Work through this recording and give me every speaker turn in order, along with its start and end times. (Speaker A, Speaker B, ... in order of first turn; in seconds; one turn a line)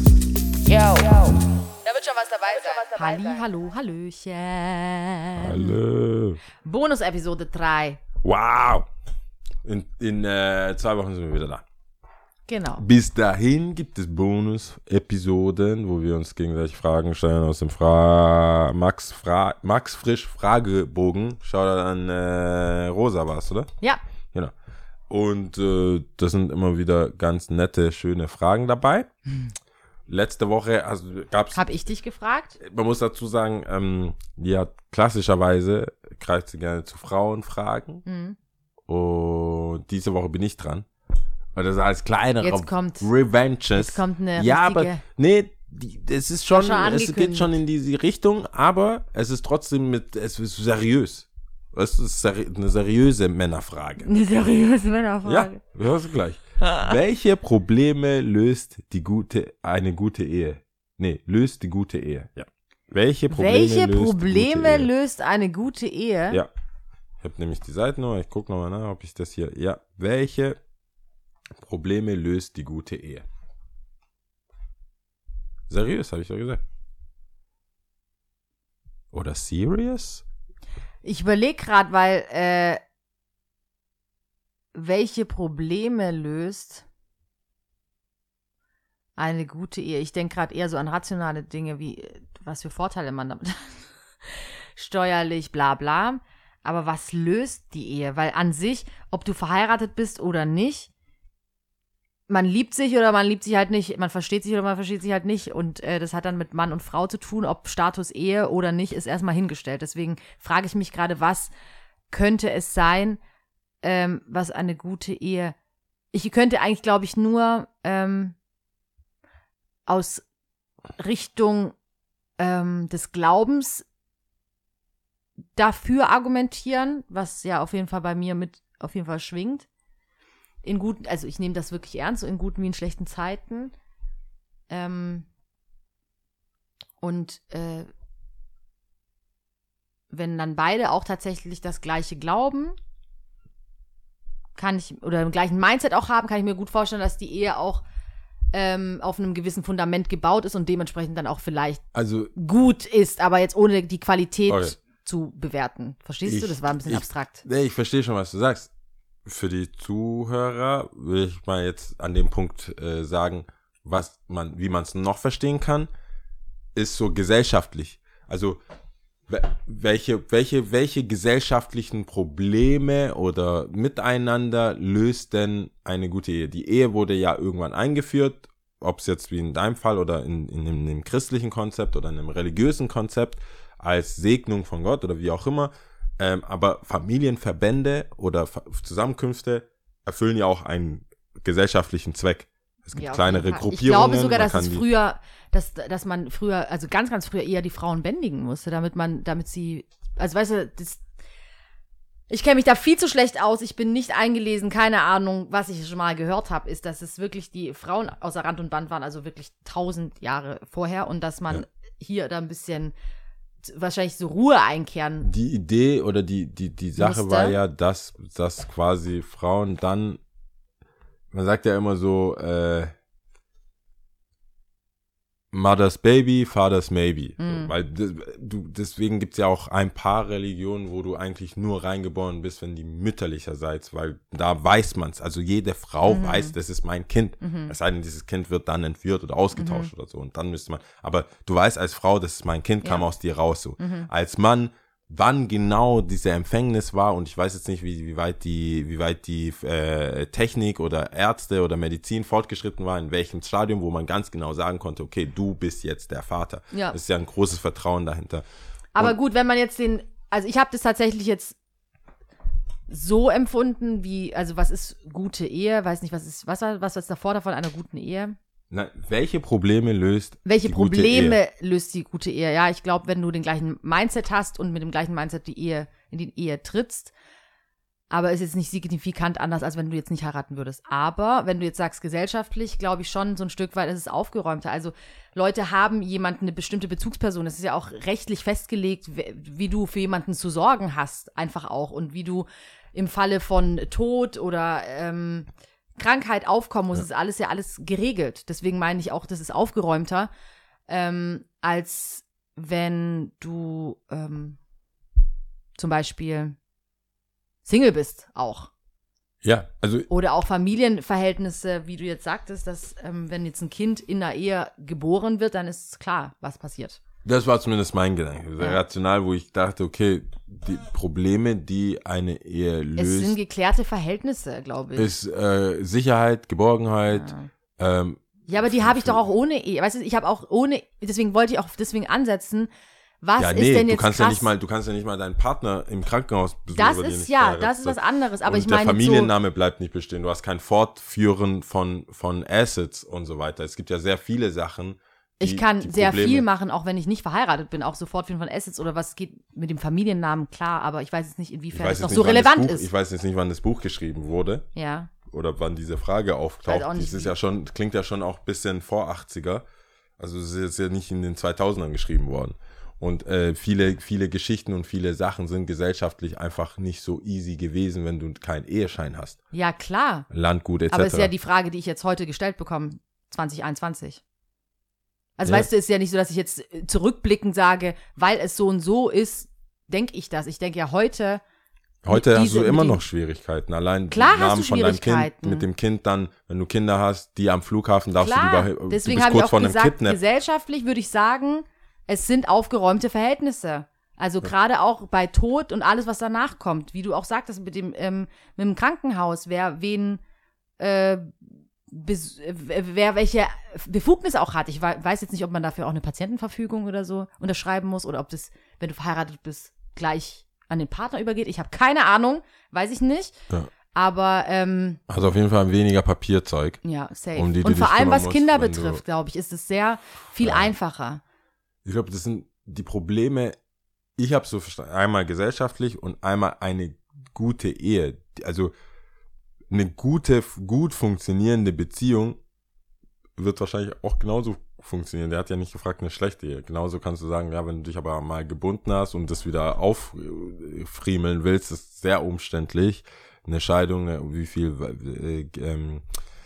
Speaker A: 0.7-3.4
Speaker B: 2.4-5.8
Speaker C: 5.4-6.4
Speaker B: 6.6-8.0
Speaker C: 8.2-8.8
Speaker C: 9.6-11.6
Speaker B: 12.5-12.8
Speaker C: 12.8-23.7
Speaker C: 25.1-29.1
Speaker C: 30.1-31.6
Speaker B: 31.5-32.6
Speaker C: 32.6-38.0
Speaker B: 38.0-38.4
Speaker C: 38.9-40.9
Speaker C: 41.5-54.1
Speaker B: 42.4-43.1
Speaker B: 43.7-45.0
Speaker B: 46.5-47.5
Speaker B: 54.0-55.6
Speaker C: 55.2-64.9
Speaker B: 63.3-66.4
Speaker C: 67.2-70.6
Speaker C: 71.6-73.2
Speaker C: 75.7-76.6
Speaker C: 79.1-80.2
Speaker B: 81.0-82.8
Speaker B: 84.7-86.8
Speaker B: 89.2-100.9
Speaker B: 102.3-111.5
Speaker B: 112.1-113.2
Speaker B: 113.8-115.5
Speaker B: 116.1-118.3
Speaker B: 119.8-120.2
Speaker B: 121.0-121.7
Speaker B: 122.4-123.8
Speaker B: 125.5-129.7
Speaker B: 130.6-133.7
Speaker B: 134.7-135.3
Speaker B: 137.0-137.9
Speaker B: 140.1-142.7
Speaker B: 144.6-147.8
Speaker B: 148.5-151.8
Speaker C: 151.9-152.3
Speaker B: 152.3-157.4
Speaker C: 154.5-154.8
Speaker C: 156.2-158.7
Speaker C: 159.2-165.9
Speaker C: 166.7-168.6
Speaker C: 169.3-194.8
Speaker B: 192.9-201.0
Speaker B: 202.3-212.9
Speaker B: 213.6-215.3
Speaker C: 215.2-220.2
Speaker B: 217.0-217.6
Speaker C: 221.3-222.9
Speaker C: 225.5-258.4
Speaker B: 227.4-227.7
Speaker B: 236.1-236.6
Speaker B: 237.4-237.7
Speaker B: 239.5-239.9
Speaker B: 242.8-243.1
Speaker B: 243.8-244.1
Speaker B: 256.7-257.0
Speaker B: 258.9-261.6
Speaker B: 262.9-268.4
Speaker C: 268.7-271.4
Speaker B: 270.4-277.1
Speaker B: 278.1-300.3
Speaker B: 300.9-304.6
Speaker B: 305.8-306.6
Speaker B: 307.6-308.7
Speaker C: 309.4-310.1
Speaker B: 310.1-317.0
Speaker C: 317.2-323.4
Speaker B: 322.9-325.1
Speaker C: 324.9-329.2
Speaker B: 327.1-327.5
Speaker B: 328.5-332.7
Speaker B: 333.2-334.5
Speaker C: 333.4-346.4
Speaker B: 336.7-339.3
Speaker B: 345.4-352.9
Speaker C: 351.7-354.6
Speaker B: 354.7-355.1
Speaker C: 355.3-359.6
Speaker B: 356.6-357.3
Speaker C: 360.2-369.4
Speaker B: 369.5-370.3
Speaker C: 370.3-371.3
Speaker B: 370.9-374.2
Speaker B: 375.4-381.4
Speaker C: 382.0-390.2
Speaker B: 382.1-383.0
Speaker B: 384.1-385.7
Speaker B: 388.1-400.2
Speaker B: 400.8-413.3
Speaker B: 413.9-415.0
Speaker C: 415.1-416.8
Speaker B: 416.8-421.2
Speaker C: 417.3-419.0
Speaker C: 420.4-420.7
Speaker C: 421.8-423.6
Speaker C: 424.2-428.7
Speaker C: 429.7-432.4
Speaker C: 433.4-446.0